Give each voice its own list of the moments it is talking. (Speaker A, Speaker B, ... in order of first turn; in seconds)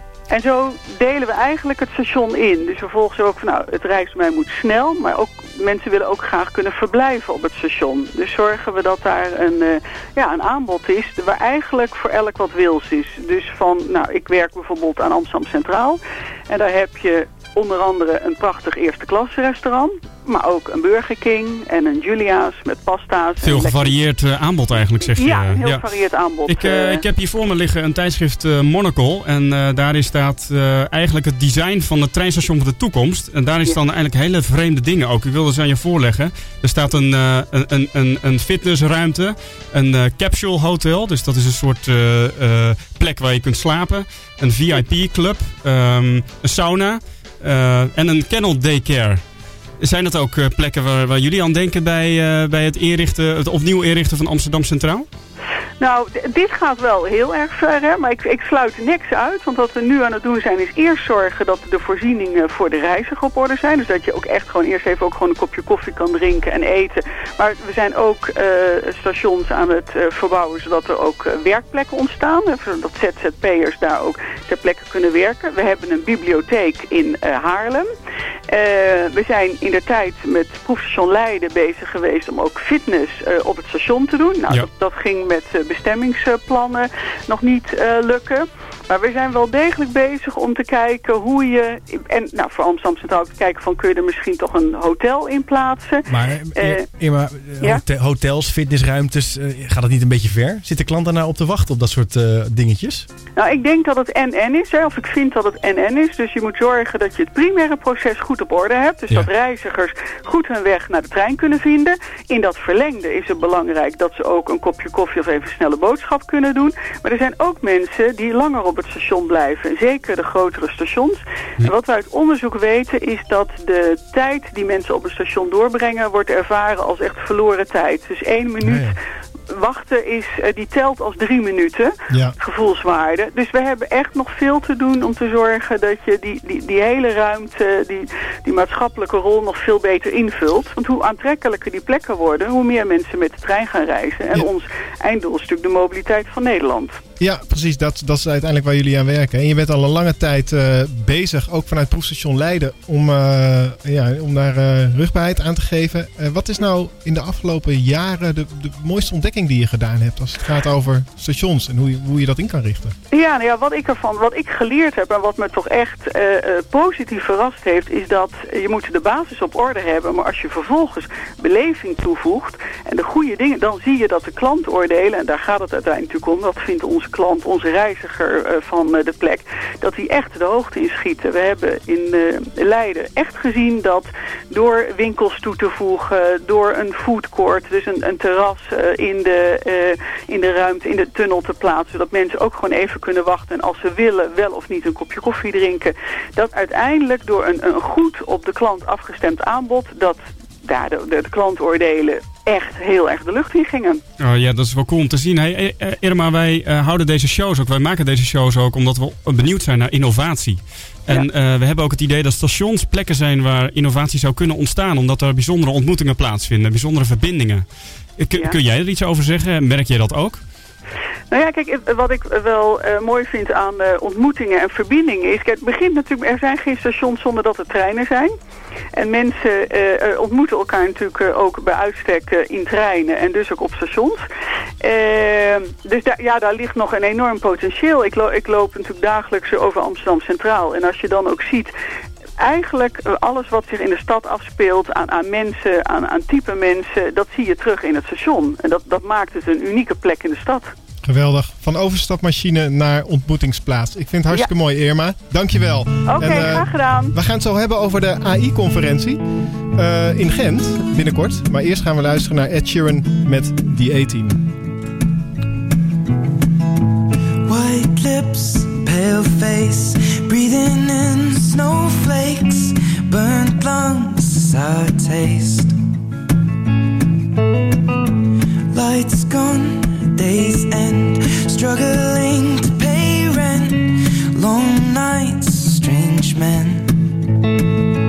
Speaker A: 0.3-24.0, 24.8-27.0, 55.8-77.9, 78.5-96.9, 103.4-129.0, 129.5-147.0, 163.1-204.0, 221.3-228.3, 228.9-234.2, 234.8-241.7, 242.4-250.7, 256.1-257.1
Speaker B: 23.4-25.9, 26.5-49.2, 49.8-55.1, 204.2-217.7, 218.2-220.4
Speaker C: 96.1-103.1, 128.6-128.9
Speaker D: 147.2-162.9, 251.0-259.2, 259.8-264.5
Speaker E: 267.4-275.8, 278.7-287.0